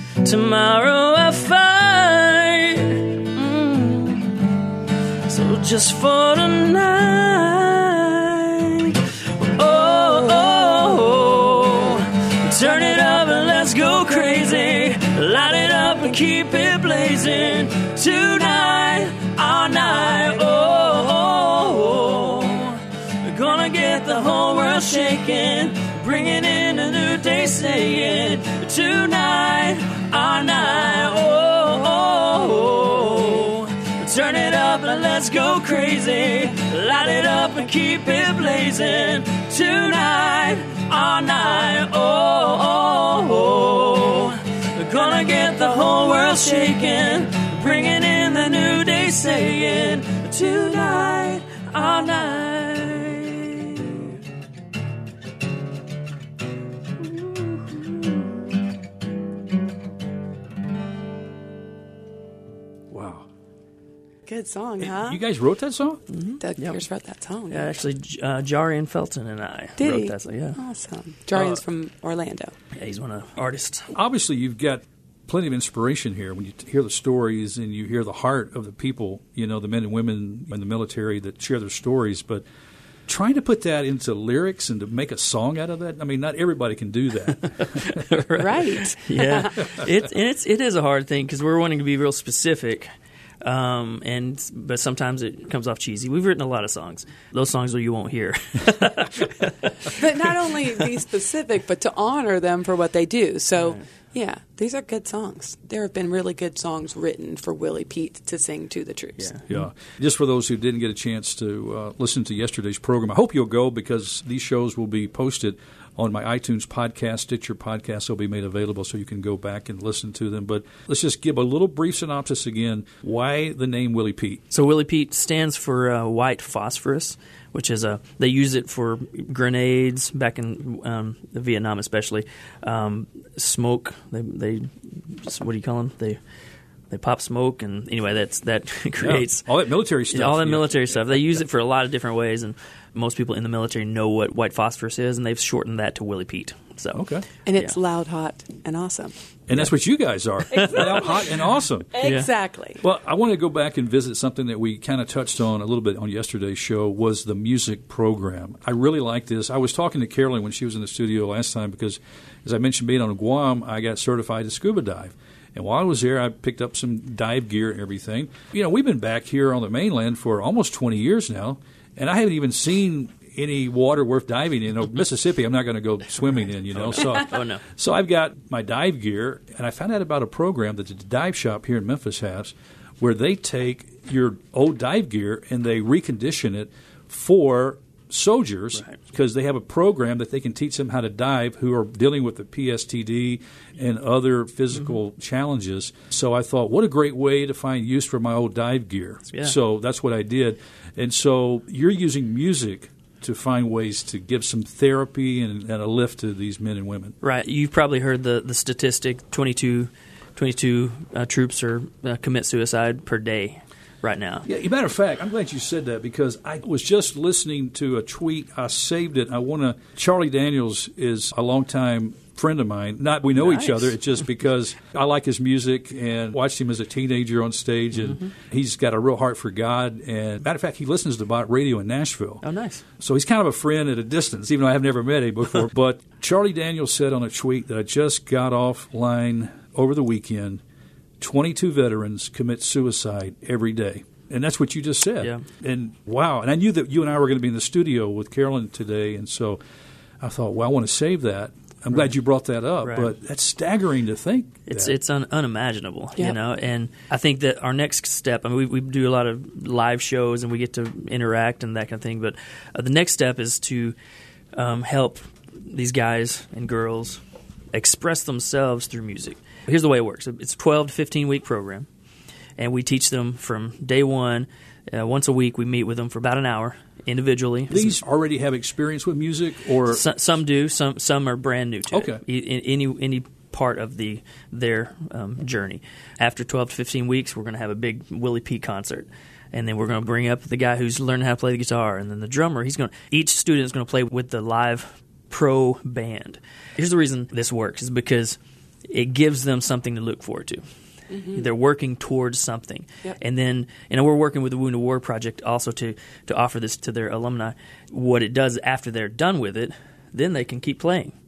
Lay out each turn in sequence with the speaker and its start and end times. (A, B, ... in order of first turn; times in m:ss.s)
0:00.2-0:04.5 A
0:05.2-0:54.1 A
0:57.4-0:57.8 A
1:02.9-1:03.2 B
1:04.2-1:05.2 C
1:04.8-1:06.0 B
1:06.1-1:06.8 A
1:06.4-1:07.7 C
1:07.5-1:10.6 A
1:09.8-1:12.5 C
1:12.7-1:13.9 A
1:13.9-1:22.4 B
1:23.1-1:28.0 B
1:27.4-1:32.9 A
1:28.4-1:29.8 C
1:33.4-1:40.8 A
1:40.0-1:49.4 C
1:43.6-1:43.9 A
1:49.2-1:49.6 A
1:49.5-2:04.4 B
2:04.5-2:16.2 A
2:16.9-2:19.5 A
2:19.0-2:21.1 B
2:20.1-2:27.0 A
2:26.9-2:27.2 B
2:27.5-2:29.1 C
2:29.5-2:32.0 B
2:30.6-2:31.0 A
2:30.6-2:31.4 C
2:32.0-2:32.8 C
2:32.0-2:32.3 A
2:32.8-3:27.1 B
2:56.7-2:57.6 A
3:19.3-3:19.6 A
3:27.2-3:34.5 A
3:34.5-3:52.4 B
3:43.4-3:44.0 A
3:48.0-3:48.3 A
3:52.4-3:52.8 A
3:53.0-4:00.6 B
4:01.2-4:09.6 B
4:10.2-4:14.9 B
4:12.8-4:13.1 A
4:14.7-4:24.0 A
4:24.5-4:27.2 A
4:27.7-4:31.9 A
4:32.6-4:38.0 A
4:37.7-4:40.0 B
4:39.9-5:00.6 A
4:41.9-4:42.2 B
5:01.1-5:01.5 C
5:01.3-5:11.1 A